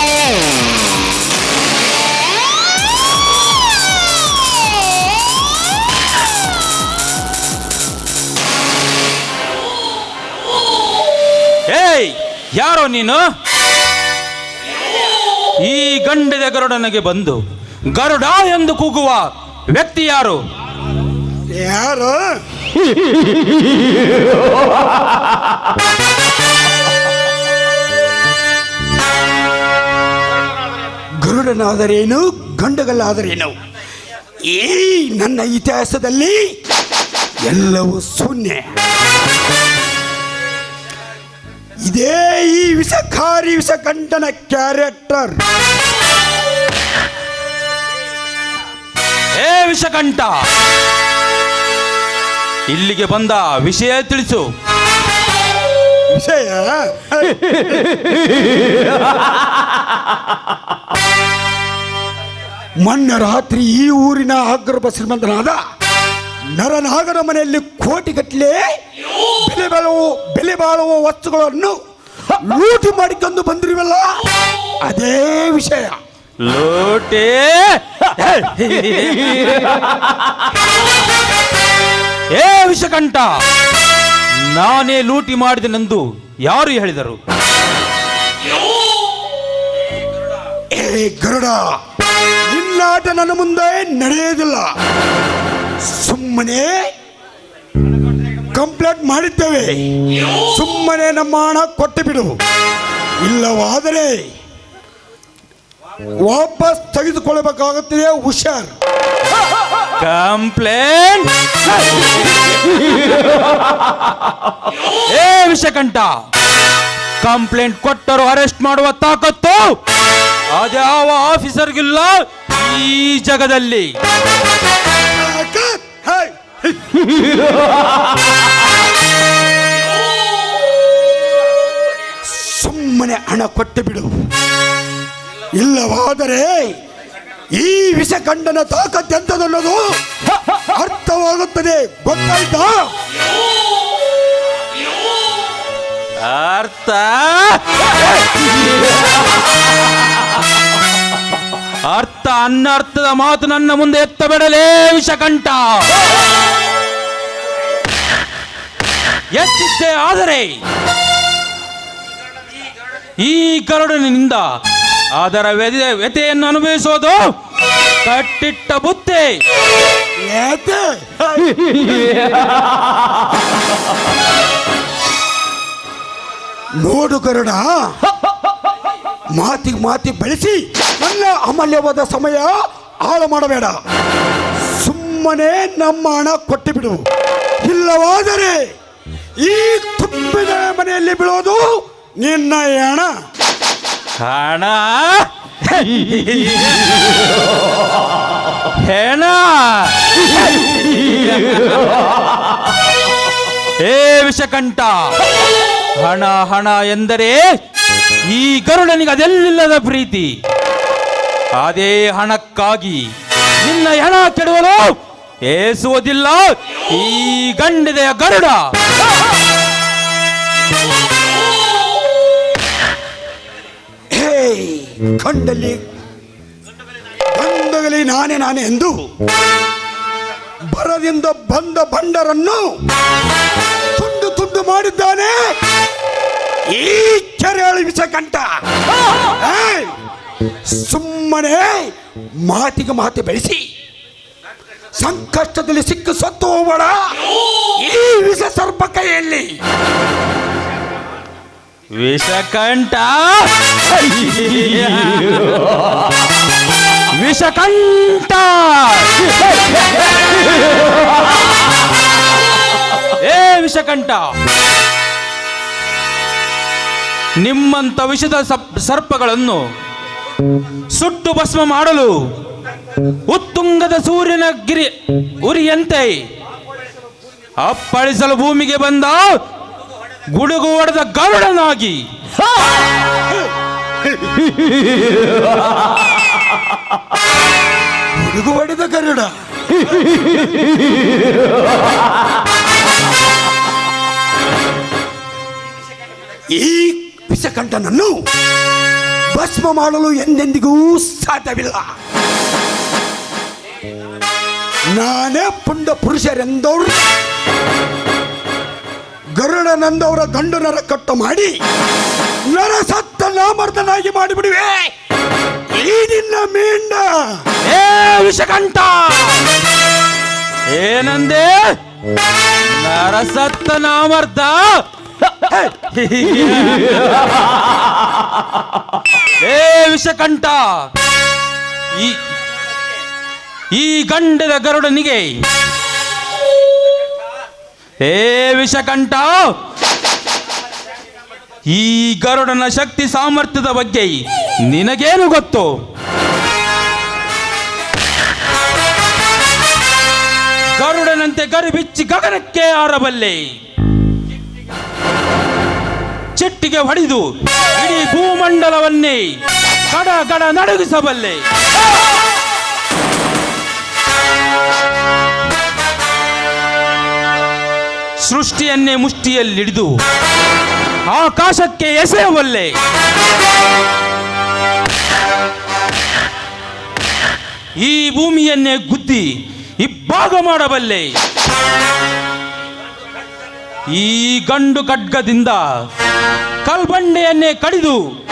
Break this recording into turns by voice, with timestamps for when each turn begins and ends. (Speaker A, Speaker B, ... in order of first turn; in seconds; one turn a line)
Speaker A: 11.7-13.3
Speaker A: 15.6-20.4
Speaker B: 21.5-22.4
Speaker B: 31.2-33.5
Speaker B: 34.4-36.5
Speaker B: 37.5-38.7
Speaker B: 41.8-45.4
Speaker A: 49.3-50.5
Speaker A: 52.7-54.5
Speaker B: 56.1-57.7
Speaker B: 62.8-65.6
Speaker B: 66.5-68.8
Speaker B: 69.4-71.8
Speaker B: 72.3-74.2
Speaker B: 74.8-76.0
Speaker A: 76.4-80.0
Speaker A: 82.3-83.4
Speaker A: 84.4-87.2
Speaker B: 90.7-91.8
Speaker B: 92.5-94.7
Speaker B: 95.8-96.9
Speaker B: 98.5-102.4
Speaker B: 103.2-104.3
Speaker B: 106.2-108.7
Speaker A: 109.9-113.1
Speaker A: 115.0-116.2
Speaker A: 117.2-119.8
Speaker A: 120.5-123.9
Speaker B: 125.2-126.3
Speaker B: 132.2-134.1
Speaker B: 135.5-136.8
Speaker B: 137.5-140.0
Speaker B: 140.6-142.9
Speaker A: 146.2-148.6
Speaker A: 151.8-156.1
Speaker A: 159.3-160.6
Speaker A: 163.2-164.5
Speaker A: 165.1-167.3
Speaker A: 168.0-169.4
Speaker B: 170.2-171.9
Speaker B: 176.8-178.0
Speaker B: 179.3-183.8
Speaker B: 184.6-187.1
Speaker B: 187.6-188.7
Speaker B: 189.4-193.1
Speaker A: 194.2-197.3
Speaker A: 198.7-201.9
Speaker A: 203.8-207.6
Speaker A: 208.2-210.4
Speaker A: 211.5-218.7
Speaker B: 224.1-225.8
Speaker B: 227.3-229.1
Speaker B: 230.7-232.8
Speaker B: 233.9-235.6
Speaker B: 236.7-238.5
Speaker B: 239.3-239.9
Speaker B: 240.6-243.6
Speaker B: 244.9-247.2
Speaker B: 247.8-249.6
Speaker A: 251.9-255.8
Speaker A: 257.1-259.9
Speaker A: 263.1-264.4
Speaker A: 267.4-269.7
Speaker A: 270.9-272.3
Speaker A: 273.0-276.3
Speaker A: 277.6-279.4
Speaker A: 280.3-282.1
Speaker B: 288.1-289.3
Speaker B: 296.5-298.2
Speaker B: 299.3-301.9
Speaker B: 304.9-307.0
Speaker B: 309.4-311.5
Speaker B: 312.5-314.9
Speaker B: 315.7-317.4
Speaker A: 317.6-319.5
Speaker A: 320.7-321.8
Speaker A: 322.6-327.3
Speaker A: 329.4-330.9
Speaker A: 331.9-332.2
Speaker A: 333.7-335.4
Speaker A: 338.0-339.6
Speaker A: 341.6-345.8
Speaker A: 350.7-353.6
Speaker A: 356.3-361.4
Speaker A: 368.2-370.0
Speaker A: 371.1-372.8
Speaker A: 377.8-381.2
Speaker A: 383.9-385.9
Speaker A: 386.6-388.1